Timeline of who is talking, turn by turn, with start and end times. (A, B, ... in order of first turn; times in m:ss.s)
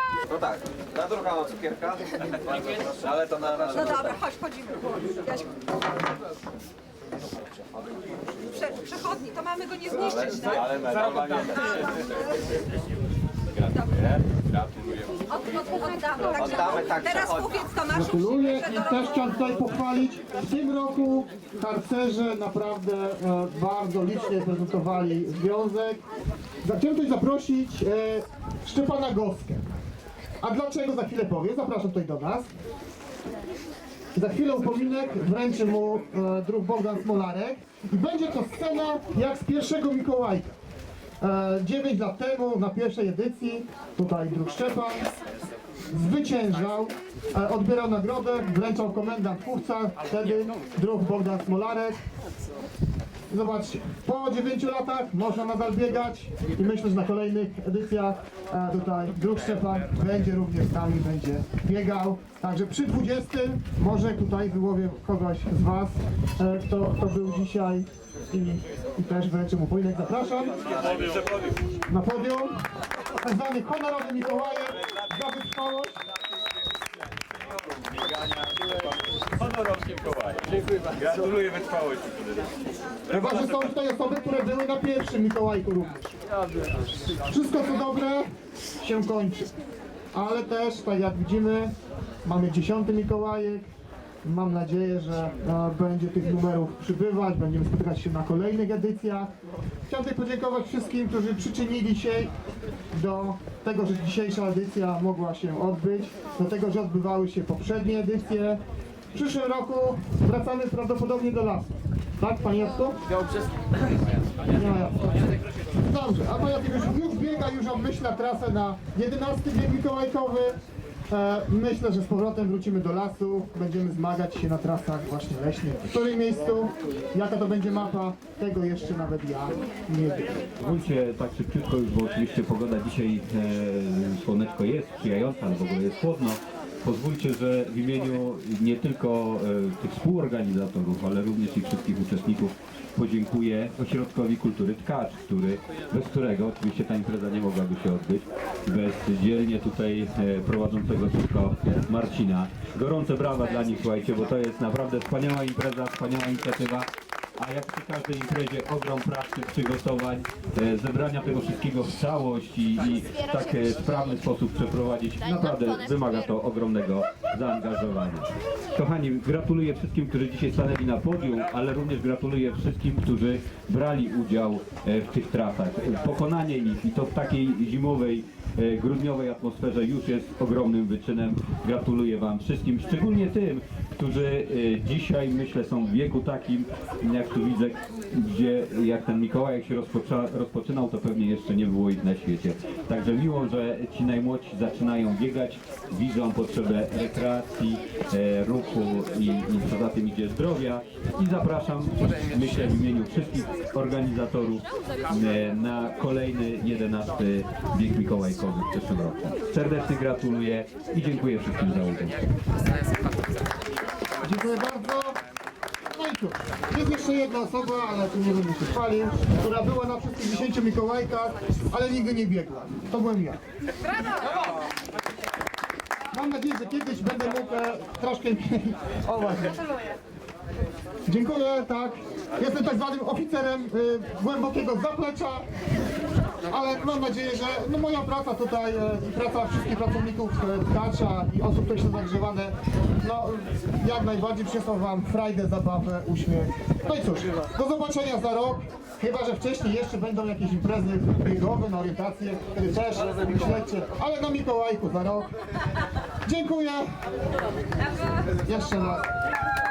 0:00.3-0:02.1 A
0:02.7-0:04.0 A
0:03.7-0:05.5 B
0:08.5-0:10.8 B
0:10.5-0:11.8 A
0:15.3-0:18.0 B
0:16.7-0:17.4 A
0:17.9-0:26.0 C
0:26.6-0:29.7 C
0:30.4-0:32.5 C
0:34.1-0:40.6 C
0:41.2-0:45.1 C
0:45.9-0:52.0 C
0:53.3-1:10.6 C
1:11.9-1:12.6 C
1:13.2-1:16.0 C
1:19.6-1:20.2 A
1:21.0-1:21.6 D
1:21.2-1:22.1 A
1:23.1-1:26.1 C
1:27.3-1:28.3 C
1:28.8-1:29.5 C
1:30.1-1:33.6 C
1:34.2-1:39.3 C
1:39.9-1:42.3 C
1:42.9-1:48.6 C
1:49.1-1:51.6 C
1:52.2-1:53.0 C
1:54.5-2:00.6 C
2:01.1-2:10.4 C
2:10.6-2:36.9 D
2:37.4-3:32.2 D
3:34.2-3:35.2 C
3:35.9-3:43.4 C
3:46.1-3:49.6 C
3:51.1-3:55.4 C
3:56.5-4:15.3 C
4:16.2-4:16.9 C
4:18.4-4:19.1 C